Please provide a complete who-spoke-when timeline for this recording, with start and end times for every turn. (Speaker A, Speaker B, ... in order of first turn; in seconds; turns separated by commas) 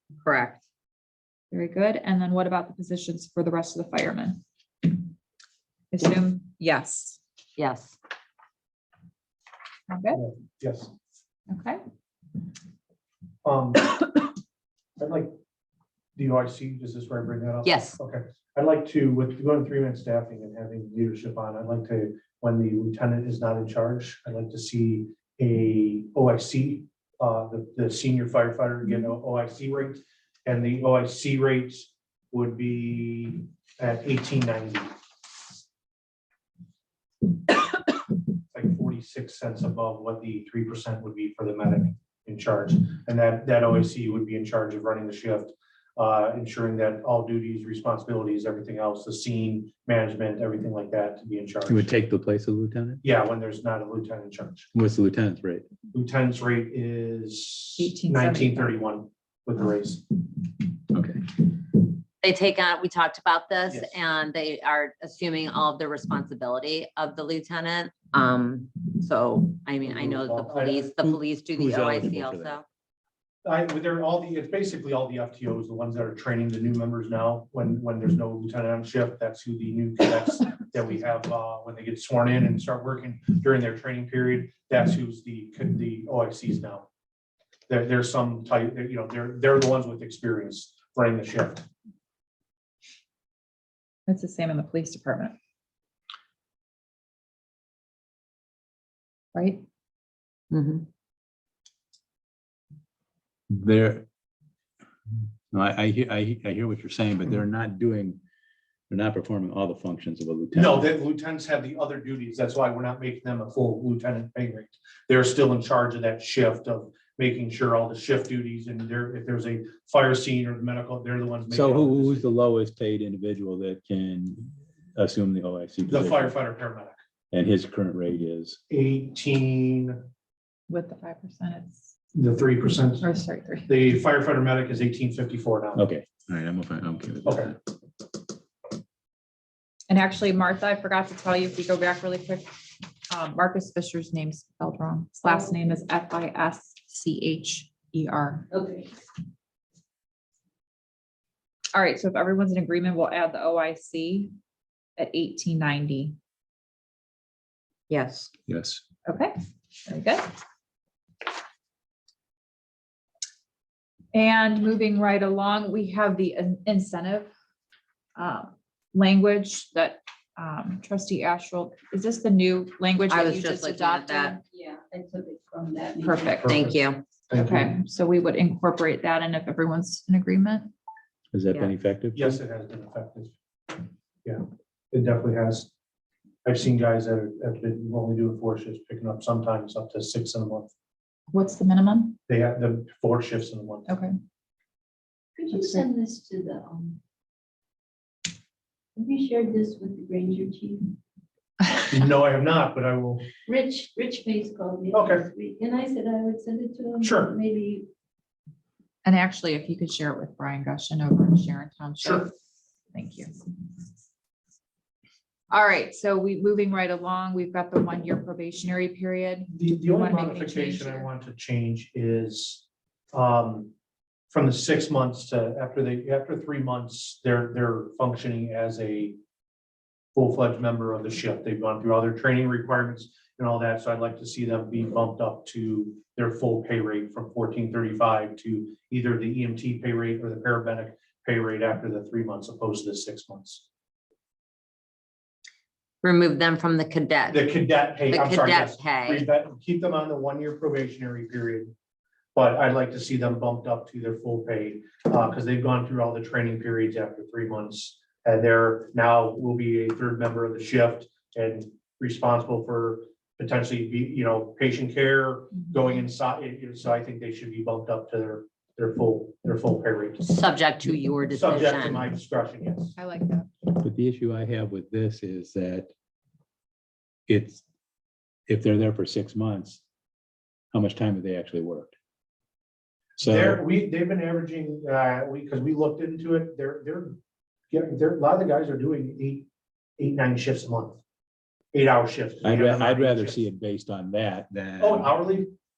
Speaker A: 0.2-0.6, Speaker B: 1.5-4.4, Speaker B: 5.9-7.2, Speaker A: 7.6-7.9, Speaker B: 9.9-10.2, Speaker C: 10.1-10.9, Speaker B: 11.5-11.8, Speaker C: 13.4-13.9, Speaker C: 15.0-15.3, Speaker C: 16.1-34.9, Speaker A: 17.6-18.0, Speaker C: 38.5-51.9, Speaker D: 51.7-53.0, Speaker C: 53.0-54.7, Speaker D: 54.7-55.7, Speaker C: 55.9-60.0, Speaker B: 57.8-58.8, Speaker D: 60.9-61.3, Speaker A: 62.2-72.6, Speaker C: 63.7-64.0, Speaker C: 69.8-71.0, Speaker D: 71.5-72.6, Speaker C: 73.4-86.8, Speaker C: 87.7-91.7, Speaker B: 94.1-95.3, Speaker B: 99.3-99.6, Speaker A: 100.5-100.8, Speaker D: 103.5-104.0, Speaker D: 105.5-108.2, Speaker D: 108.9-110.9, Speaker C: 110.5-122.2, Speaker D: 121.5-126.3, Speaker C: 125.9-127.0, Speaker D: 127.3-128.6, Speaker C: 128.7-130.0, Speaker B: 130.7-131.9, Speaker C: 132.1-133.1, Speaker B: 133.0-133.7, Speaker C: 133.7-135.8, Speaker D: 135.8-137.6, Speaker C: 137.2-137.5, Speaker B: 139.9-148.5, Speaker E: 148.5-148.8, Speaker B: 151.7-154.3, Speaker B: 155.0-156.2, Speaker A: 157.9-158.3, Speaker D: 158.5-158.8, Speaker B: 159.1-160.3, Speaker B: 164.1-167.3, Speaker B: 168.2-174.4, Speaker A: 173.1-174.4, Speaker E: 174.4-176.5, Speaker B: 176.0-176.7, Speaker C: 176.3-176.7, Speaker A: 176.5-177.0, Speaker C: 177.3-177.7, Speaker B: 177.3-180.7, Speaker D: 181.3-182.4, Speaker C: 182.1-185.7, Speaker C: 186.4-190.7, Speaker B: 191.3-192.2, Speaker C: 192.3-193.9, Speaker B: 193.9-194.1, Speaker E: 195.4-197.0, Speaker E: 198.9-200.9, Speaker C: 201.9-203.2, Speaker E: 203.5-207.9, Speaker C: 204.9-205.2, Speaker C: 207.0-207.3, Speaker B: 209.0-212.3, Speaker C: 212.0-212.3, Speaker B: 212.9-213.4, Speaker B: 215.5-221.1, Speaker C: 219.5-223.7, Speaker C: 224.3-229.2, Speaker C: 230.1-243.6, Speaker A: 246.0-247.4, Speaker C: 247.3-251.7, Speaker A: 248.1-249.3, Speaker C: 252.3-270.3, Speaker A: 270.2-272.1, Speaker C: 271.3-272.9, Speaker B: 272.9-273.5, Speaker D: 273.7-275.9, Speaker D: 277.3-277.6, Speaker D: 278.5-279.8, Speaker D: 280.7-281.9, Speaker D: 283.2-283.6, Speaker C: 283.2-287.2, Speaker C: 287.7-289.5, Speaker C: 290.0-291.0, Speaker C: 291.7-293.4, Speaker D: 292.4-295.2, Speaker C: 294.8-295.5